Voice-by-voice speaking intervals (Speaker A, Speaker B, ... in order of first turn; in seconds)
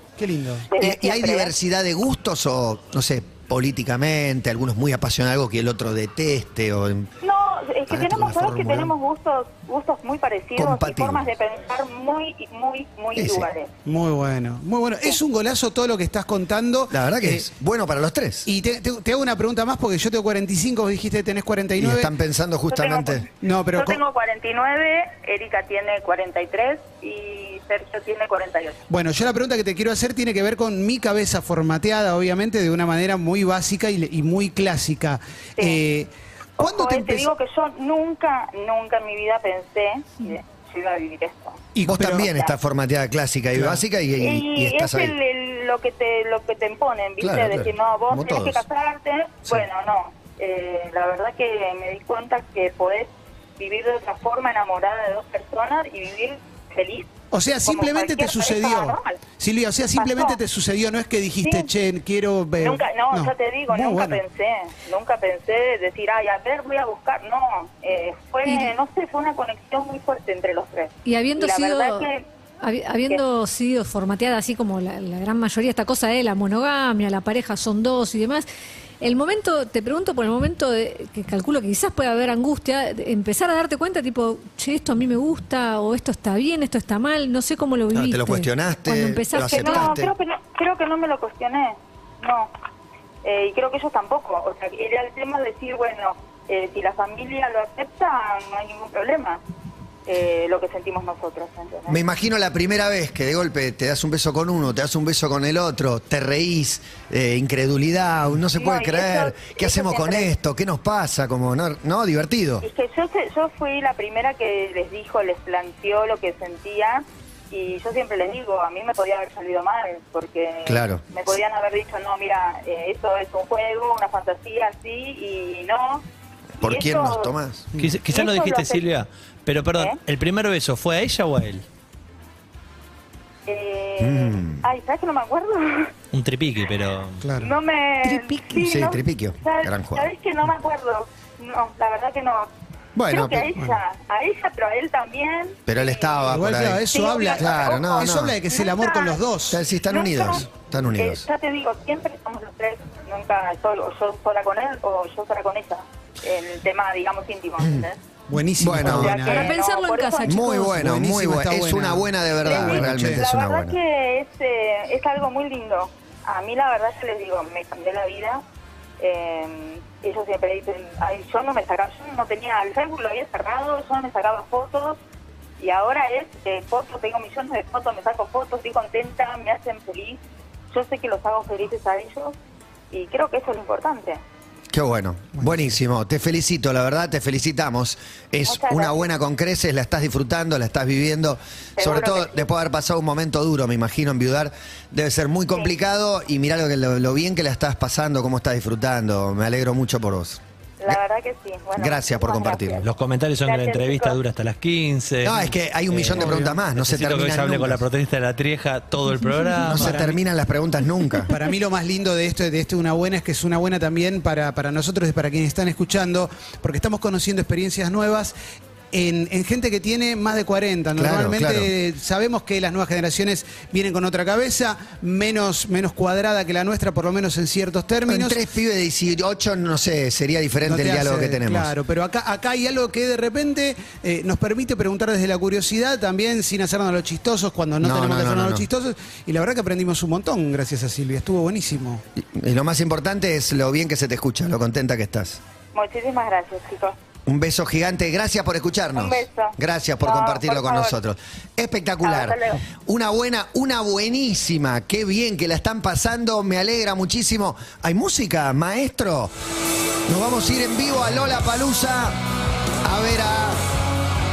Speaker A: 0.2-0.7, 13.8-17.5, 18.5-22.1, 23.4-24.0, 28.9-37.3, 41.8-42.3, 43.6-43.8, 57.3-64.2, 127.8-128.0, 137.2-137.5, 146.3-149.7, 158.3-159.6, 160.7-163.2, 185.4-185.7, 206.1-206.6, 209.7-210.1, 211.3-218.3, 218.9-228.4, 230.6-242.0
Speaker B: 0.7-1.5, 7.2-13.7, 22.7-28.8, 36.6-41.6, 42.2-42.5, 44.2-59.2, 60.0-60.4, 61.4-61.7, 62.6-72.2, 89.4-92.5, 93.2-99.4, 100.1-102.0, 108.5-110.3, 112.6-126.0, 126.6-127.4, 128.1-128.8, 133.5-135.9, 137.4-142.5, 143.1-146.3, 146.9-149.2, 149.8-158.0, 158.8-160.4, 162.4-168.4, 169.0-175.0, 175.6-182.4, 182.9-184.2, 188.4-189.1, 191.8-192.5, 200.8-202.9, 203.4-204.2, 245.7-247.0, 248.9-251.0, 252.0-252.6
Speaker C: 0.8-7.1, 7.9-8.9, 10.6-11.3, 13.2-13.5, 16.9-18.5, 21.8-23.3, 41.9-45.2, 47.2-48.6, 87.9-90.1, 101.9-112.7, 120.7-121.0, 126.6-127.7, 134.0-134.6, 138.6-140.1, 142.9-143.5, 145.7-148.4, 149.5-151.3, 158.6-159.3, 160.2-163.8, 184.7-201.0, 201.8-202.9, 205.2-207.8, 209.7-211.3, 221.0-221.7, 228.1-231.7, 237.8-238.7, 242.2-245.4, 247.3-259.3, 260.1-262.2, 262.8-263.6
Speaker D: 68.5-68.7, 71.0-72.1, 72.6-78.5, 79.0-89.9, 138.1-138.7, 159.2-160.8, 209.2-209.7
Speaker E: 127.8-131.7, 136.1-137.3, 202.8-210.0